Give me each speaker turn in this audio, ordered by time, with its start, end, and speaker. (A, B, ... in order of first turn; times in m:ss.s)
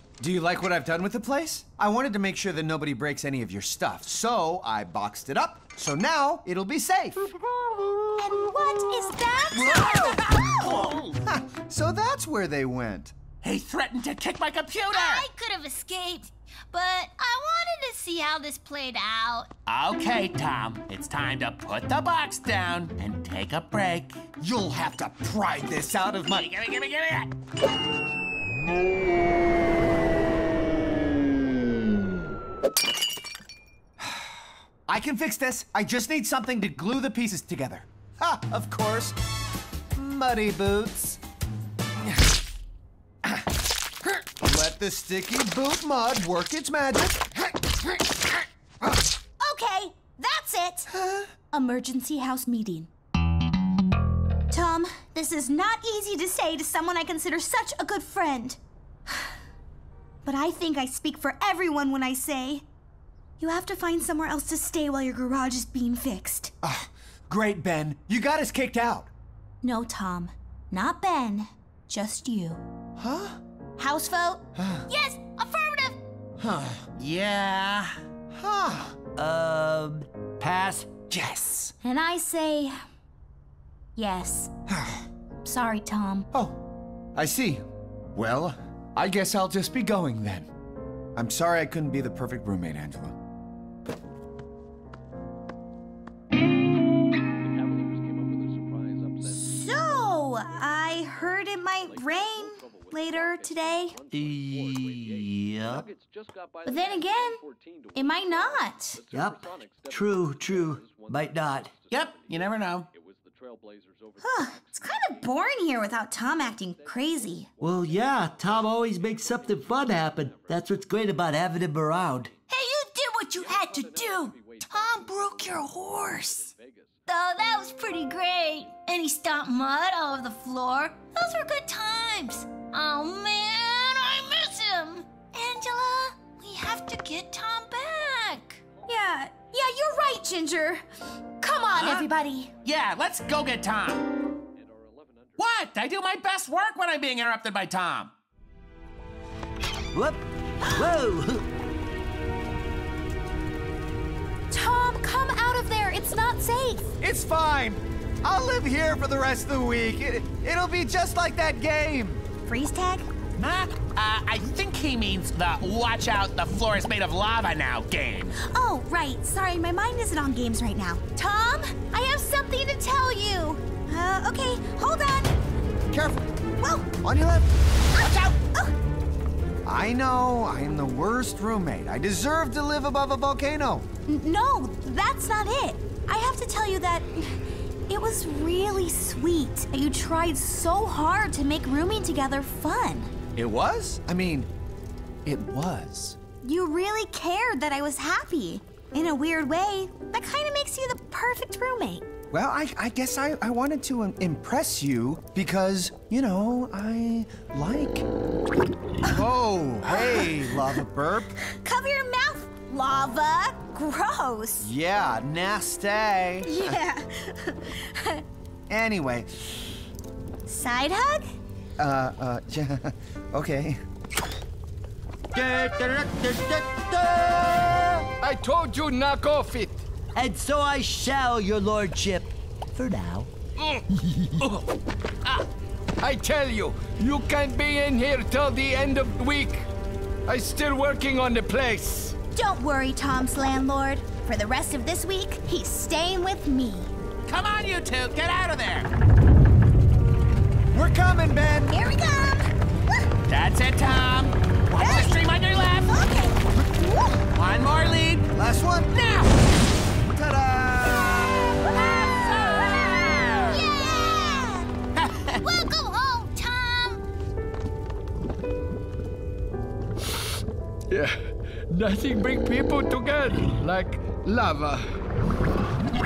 0:00.2-0:07.2 A
0:08.1-0:10.7 B
0:11.2-0:13.1 A
0:13.4-0:15.3 C
0:14.9-0:19.5 D
0:19.7-0:24.2 C
0:24.4-0:26.4 A
0:26.2-0:27.3 C
0:34.0-0:39.2 A
0:39.9-0:41.2 A
0:43.2-0:43.5 A
0:44.0-0:47.5 A
0:49.4-0:50.9 B
0:50.9-0:51.3 A
0:51.5-0:52.9 B
0:54.5-0:58.6 B
1:00.2-1:02.6 B
1:03.4-1:06.5 B
1:06.6-1:09.1 A
1:09.6-1:12.6 B
1:13.0-1:13.4 A
1:13.8-1:14.4 B
1:14.6-1:14.8 A
1:14.9-1:16.0 D
1:16.4-1:16.8 A
1:17.0-1:18.0 C
1:18.3-1:19.0 A
1:19.2-1:20.9 E
1:21.1-1:21.7 A
1:21.8-1:22.8 B
1:24.0-1:24.5 B
1:24.7-1:25.0 A
1:25.4-1:26.3 B
1:26.3-1:26.6 A
1:27.1-1:27.6 A
1:28.1-1:30.5 A
1:31.2-1:33.2 A
1:39.2-1:44.0 B
1:44.1-1:45.9 E
1:46.6-1:47.4 B
1:47.9-1:49.0 B
1:49.1-1:51.7 E
1:51.9-1:52.9 C
1:54.2-1:57.5 B
1:57.6-2:02.3 E
2:02.5-2:06.5 D
2:07.1-2:18.6 D
2:18.8-2:20.8 B
2:21.4-2:22.5 B
2:21.7-2:22.0 C
2:22.6-2:24.0 C
2:25.4-2:28.1 C
2:29.9-2:31.4 E
2:34.5-2:37.0 B
2:37.0-2:42.2 A
2:42.4-2:43.1 B
2:43.4-2:48.3 C
2:48.4-2:55.3 B
2:55.9-2:56.3 A
2:56.6-2:56.9 B
2:57.0-2:57.5 A
2:57.9-2:58.7 B
2:59.6-3:03.9 A
3:04.1-3:07.4 B
3:07.9-3:13.1 B
3:13.4-3:14.5 A
3:15.2-3:16.2 A
3:16.4-3:22.0 B
3:22.3-3:28.0 A
3:29.1-3:31.3 A
3:29.8-3:30.5 B
3:31.4-3:34.7 B
3:34.6-3:36.7 A
3:36.4-3:38.2 B
3:38.7-3:39.6 A
3:40.5-3:41.3 B
3:41.8-3:43.8 A
3:45.3-3:48.0 E
3:48.2-3:49.8 F
3:50.1-3:53.3 E
3:53.9-3:54.4 E
3:56.0-3:59.6 F
4:00.3-4:02.2 F
4:02.3-4:06.9 B
4:07.3-4:08.9 C
4:10.7-4:11.7 A
4:11.7-4:13.1 B
4:13.3-4:16.0 C
4:14.8-4:15.2 B
4:15.9-4:17.2 B
4:17.3-4:18.3 C
4:18.3-4:19.0 A
4:18.9-4:19.3 C
4:20.0-4:21.4 A
4:21.1-4:22.9 B
4:22.5-4:23.4 C
4:23.5-4:24.6 D
4:25.0-4:25.4 C
4:25.4-4:27.0 D
4:31.7-4:34.8 F